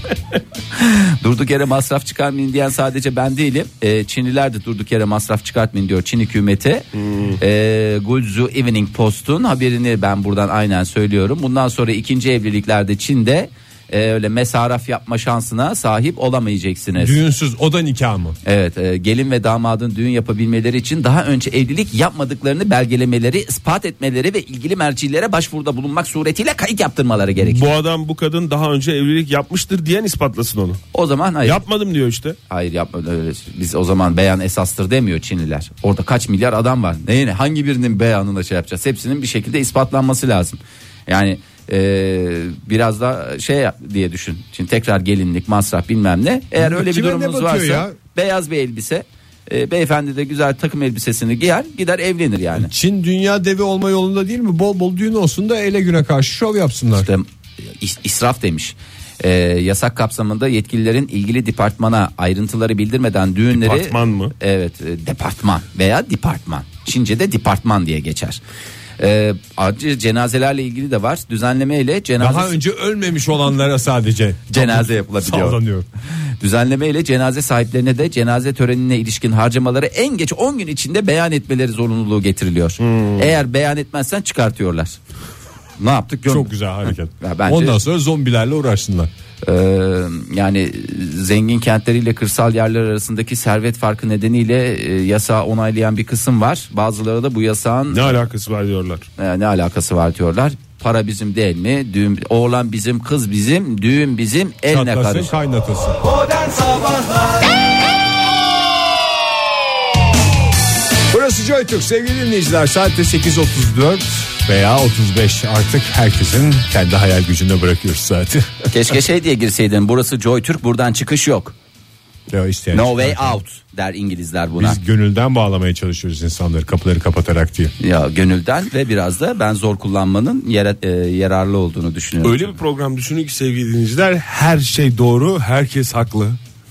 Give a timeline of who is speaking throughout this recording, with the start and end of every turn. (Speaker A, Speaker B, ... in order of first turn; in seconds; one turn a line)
Speaker A: 0.8-6.9
Speaker B: 7.0-7.4
Speaker A: 7.4-17.2
Speaker C: 17.0-18.4
Speaker A: 18.4-27.7
Speaker B: 27.4-30.8
Speaker A: 30.9-31.6
Speaker B: 31.4-32.4
Speaker A: 32.5-52.7
Speaker C: 46.6-48.0
Speaker C: 52.6-57.1
Speaker A: 57.0-68.4
Speaker B: 63.5-64.3
Speaker A: 69.0-72.6
Speaker C: 72.2-75.9
Speaker A: 74.5-75.6
Speaker A: 76.4-85.0
Speaker B: 82.8-83.3
Speaker A: 85.8-87.8
Speaker C: 86.3-89.1
Speaker A: 89.4-98.2
Speaker B: 97.9-99.1
Speaker A: 99.2-105.3
Speaker C: 104.7-106.0
Speaker C: 111.1-118.6
Speaker A: 118.7-121.5
Speaker C: 122.3-123.4
Speaker A: 122.7-124.8
Speaker C: 124.6-127.7
Speaker A: 127.8-132.6
Speaker B: 132.2-136.4